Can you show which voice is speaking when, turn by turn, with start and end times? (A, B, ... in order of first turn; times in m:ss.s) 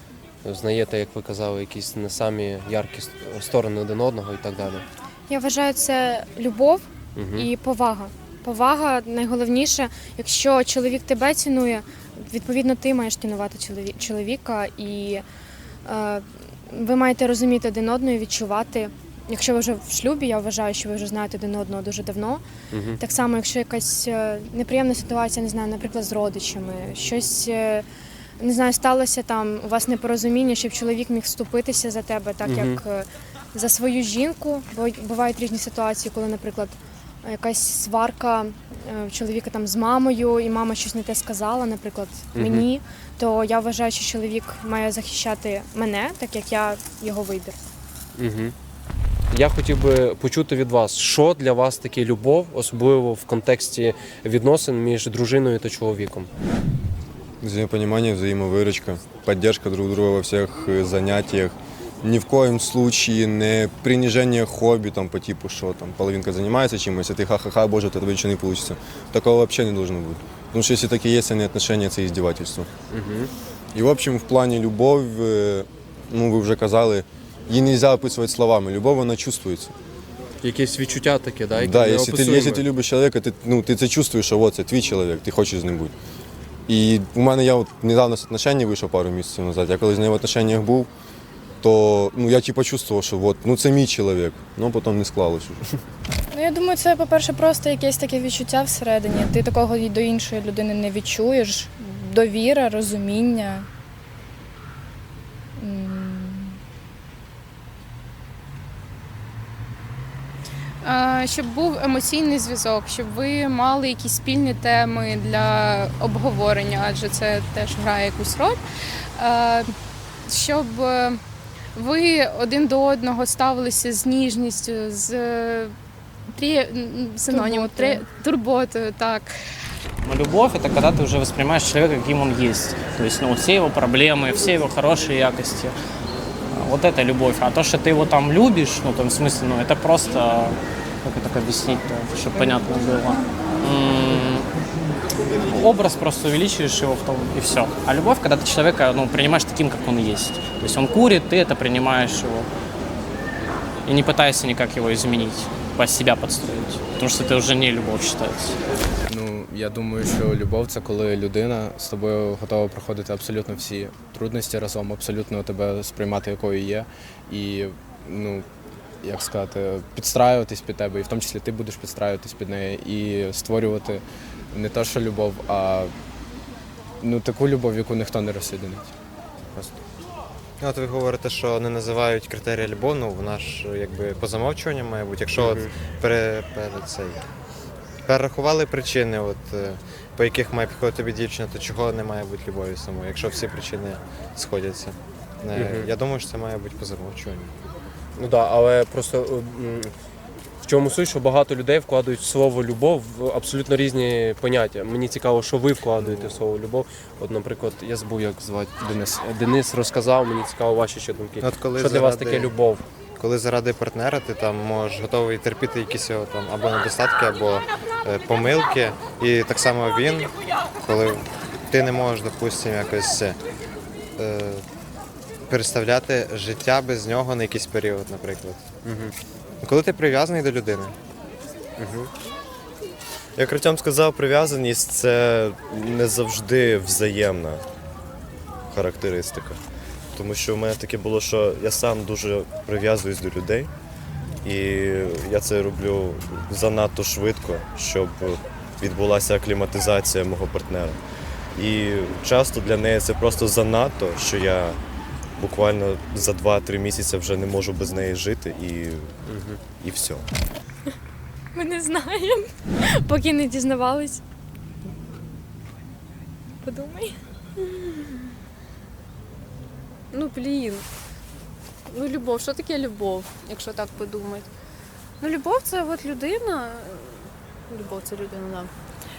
0:00.4-0:04.8 A
0:05.3-0:15.2 B
0:07.1-0:07.5 A
0:15.8-0:22.4 B
0:22.7-0:23.0 A
0:23.0-0:27.8 B
0:28.4-0:47.6 B
0:32.4-0:32.8 A
0:42.3-0:42.7 A
0:48.2-0:48.5 A
0:49.3-0:56.3 A
0:57.4-1:12.7 C
1:12.9-1:13.3 A
1:13.7-1:19.7 C
1:20.4-1:22.6 A
1:21.5-1:25.9 C
1:26.7-1:30.9 C
1:31.6-1:35.6 C
1:36.3-1:43.7 D
1:45.6-1:46.6 D
1:50.8-1:58.6 E
1:59.2-1:59.7 E
2:00.3-2:01.2 E
2:01.7-2:05.7 E
2:06.3-2:09.3 E
2:07.3-2:07.9 B
2:10.0-2:15.8 F
2:16.5-2:24.5 F
2:25.4-2:32.5 F
2:33.8-2:38.6 F
2:39.1-2:48.4 G
2:49.0-2:55.9 G
2:57.0-2:58.9 G
3:00.6-3:07.2 H
3:05.4-3:05.7 A
3:08.0-3:17.5 H
3:15.5-3:15.9 A
3:18.2-3:19.9 A
3:20.6-3:32.8 A
3:28.8-3:29.2 G
3:31.4-3:32.5 H
3:33.2-3:43.4 H
3:44.2-3:44.6 H
3:45.5-3:48.6 H
3:48.8-3:49.1 A
3:49.6-3:51.0 H
3:51.8-3:52.1 A
3:53.4-3:57.6 I
3:58.7-3:59.6 I
4:00.1-4:03.7 I
4:04.4-4:11.0 I
4:11.6-4:14.8 I
4:15.4-4:19.1 I
4:19.3-4:19.6 A
4:19.8-4:20.3 I
4:21.5-4:24.2 B
4:26.6-4:27.2 B
4:30.1-4:30.8 J
4:31.9-4:34.5 J
4:35.2-4:38.7 J